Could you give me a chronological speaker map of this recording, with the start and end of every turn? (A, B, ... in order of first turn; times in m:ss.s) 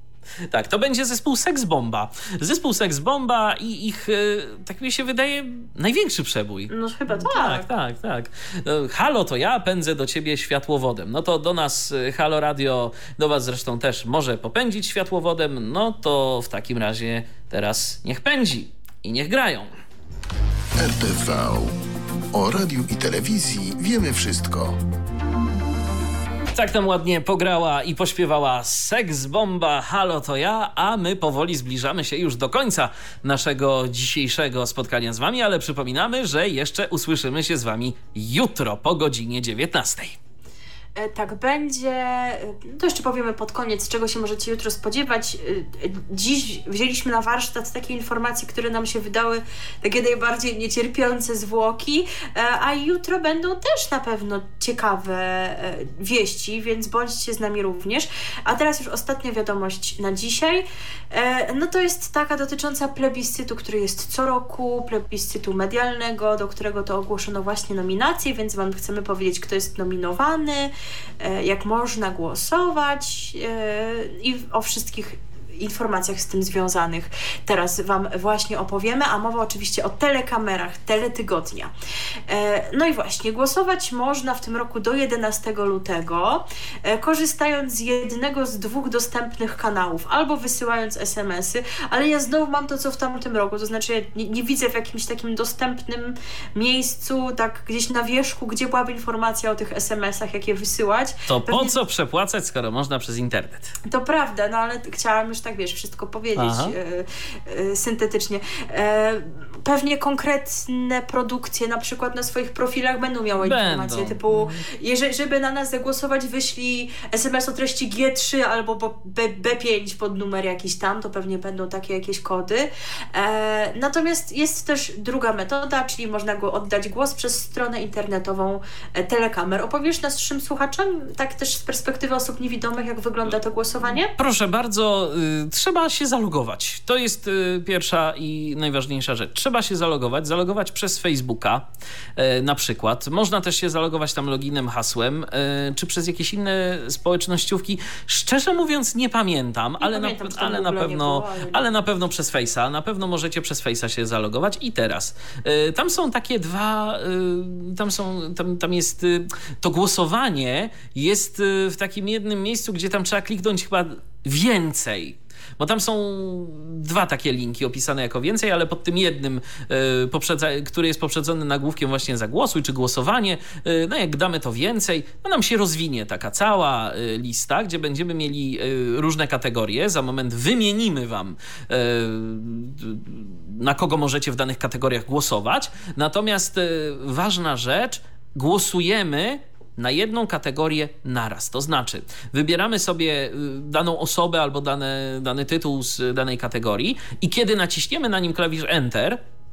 0:00.5-0:19.7 A
0:06.7-0:07.6 B
0:20.8-0:21.8 C
0:22.3-0:24.8 C
0:26.5-0:40.2 A
0:41.0-1:21.7 B
1:22.3-1:41.8 B
1:41.3-1:43.7 A
1:43.8-2:14.1 B
1:46.4-1:46.7 A
1:53.4-1:54.6 A
2:14.1-2:21.6 A
2:22.2-3:19.2 A
2:29.8-2:31.7 B